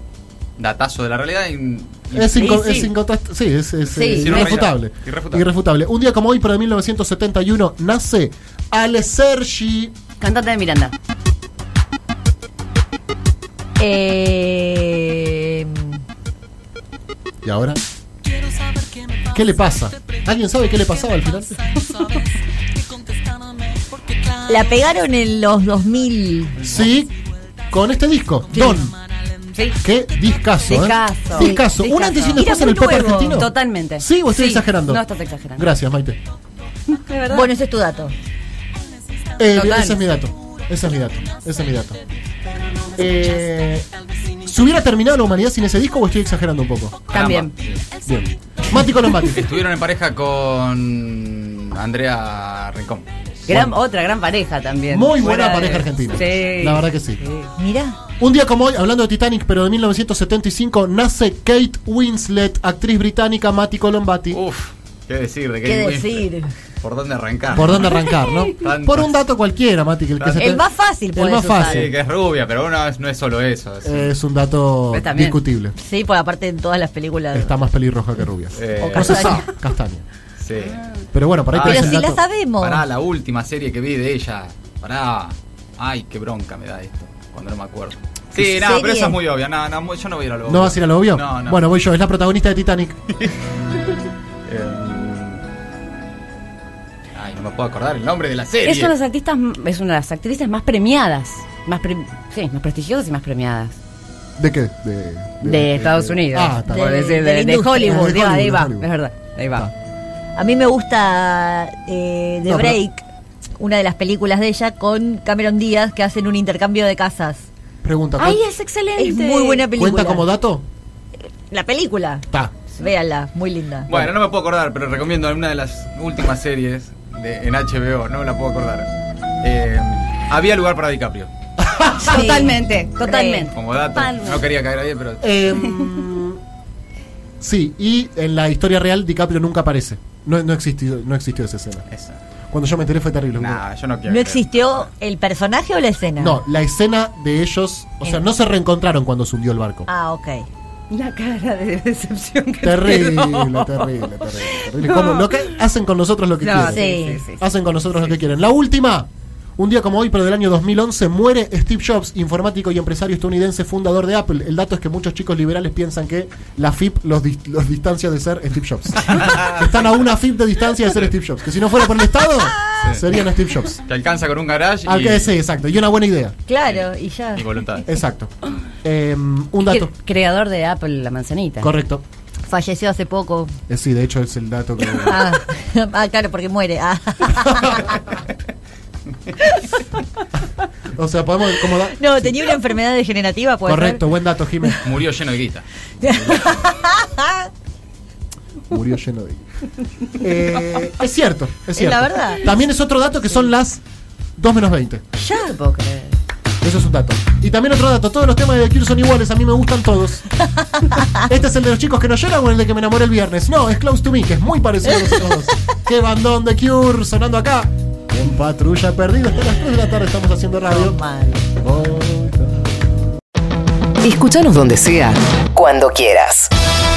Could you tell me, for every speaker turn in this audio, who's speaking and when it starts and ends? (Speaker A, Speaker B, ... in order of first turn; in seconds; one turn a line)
Speaker A: 0.6-2.8
Speaker B: 2.1-10.0
Speaker C: 2.4-2.9
Speaker D: 3.9-4.2
Speaker C: 3.9-4.5
Speaker A: 4.2-5.5
Speaker C: 10.2-10.9
Speaker D: 13.8-16.0
Speaker B: 17.4-17.8
Speaker B: 19.2-21.7
Speaker D: 24.4-26.7
Speaker B: 26.6-27.2
Speaker B: 27.7-28.9
Speaker B: 29.8-35.0
Speaker C: 30.6-35.7
Speaker D: 31.4-31.6
Speaker B: 35.5-36.2
Speaker C: 36.9-37.5
Speaker D: 37.3-38.1
Speaker B: 39.4-42.0
Speaker C: 39.5-40.0
Speaker B: 42.9-43.9
Speaker B: 44.4-47.1
Speaker C: 47.1-47.5
Speaker A: 47.1-47.8
Speaker B: 48.0-49.6
Speaker A: 49.1-53.0
Speaker B: 53.5-53.8
Speaker C: 53.5-57.5
Speaker B: 54.9-57.2
Speaker D: 57.6-58.0
Speaker B: 58.2-64.4
Speaker A: 64.3-66.3
Speaker D: 65.6-66.5
Speaker A: 66.8-68.0
Speaker B: 67.5-71.9
Speaker A: 68.5-69.2
Speaker A: 70.2-70.6
Speaker D: 70.4-71.9
Speaker A: 71.6-74.1
Speaker B: 73.8-75.7
Speaker C: 74.9-75.4
Speaker D: 75.8-77.5
Speaker B: 77.3-80.0
Speaker A: 78.5-79.4
Speaker D: 78.8-79.5
Speaker A: 80.4-80.8
Speaker C: 80.6-81.0
Speaker B: 81.1-82.2
Speaker A: 81.5-91.6
Speaker D: 81.6-82.8
Speaker D: 88.3-89.2
Speaker B: 90.5-93.0
Speaker A: 94.5-95.4
Speaker A: 97.1-98.9
Speaker C: 98.6-103.8
Speaker B: 104.4-106.9
Speaker C: 105.4-109.7
Speaker D: 106.7-108.3
Speaker B: 107.8-108.9
Speaker D: 110.3-113.0
Speaker B: 112.5-112.8
Speaker D: 113.6-117.5
Speaker B: 117.8-118.4
Speaker C: 118.2-119.7
Speaker D: 119.0-120.3
Speaker B: 119.7-120.6
Speaker D: 121.5-124.1
Speaker A: 123.9-128.9
Speaker A: 129.4-131.3
Speaker B: 131.6-132.6
Speaker C: 132.0-134.4
Speaker D: 132.0-133.5
Speaker A: 133.5-135.3
Speaker B: 135.2-136.4
Speaker C: 135.6-135.9
Speaker B: 137.4-141.8
Speaker A: 141.9-142.2
Speaker B: 142.5-143.6
Speaker A: 143.3-144.9
Speaker D: 144.1-146.4
Speaker B: 146.2-149.9
Speaker D: 149.9-150.5
Speaker C: 150.9-155.6
Speaker B: 152.6-173.8
Speaker C: 156.4-158.2
Speaker D: 156.5-157.2
Speaker A: 169.0-170.0
Speaker A: 170.8-171.1
Speaker D: 172.4-172.9
Speaker A: 173.8-175.4
Speaker B: 174.8-176.3
Speaker D: 176.5-177.4
Speaker A: 176.6-177.8
Speaker B: 177.9-178.3
Speaker B: 178.8-179.9
Speaker C: 179.7-181.7
Speaker B: 181.6-182.0
Speaker D: 182.5-183.6
Speaker B: 183.7-185.4
Speaker D: 185.0-188.0
Speaker B: 187.3-187.9
Speaker D: 189.4-189.8
Speaker B: 190.9-192.6
Speaker D: 191.8-194.1
Speaker B: 193.7-195.0
Speaker A: 194.8-196.7
Speaker D: 196.0-197.5
Speaker B: 198.7-199.4
Speaker B: 200.2-203.8
Speaker D: 201.7-202.5
Speaker B: 204.4-205.0
Speaker C: 205.2-206.2
Speaker B: 206.6-210.2
Speaker B: 211.1-222.8
Speaker D: 220.6-221.4
Speaker E: 224.0-226.5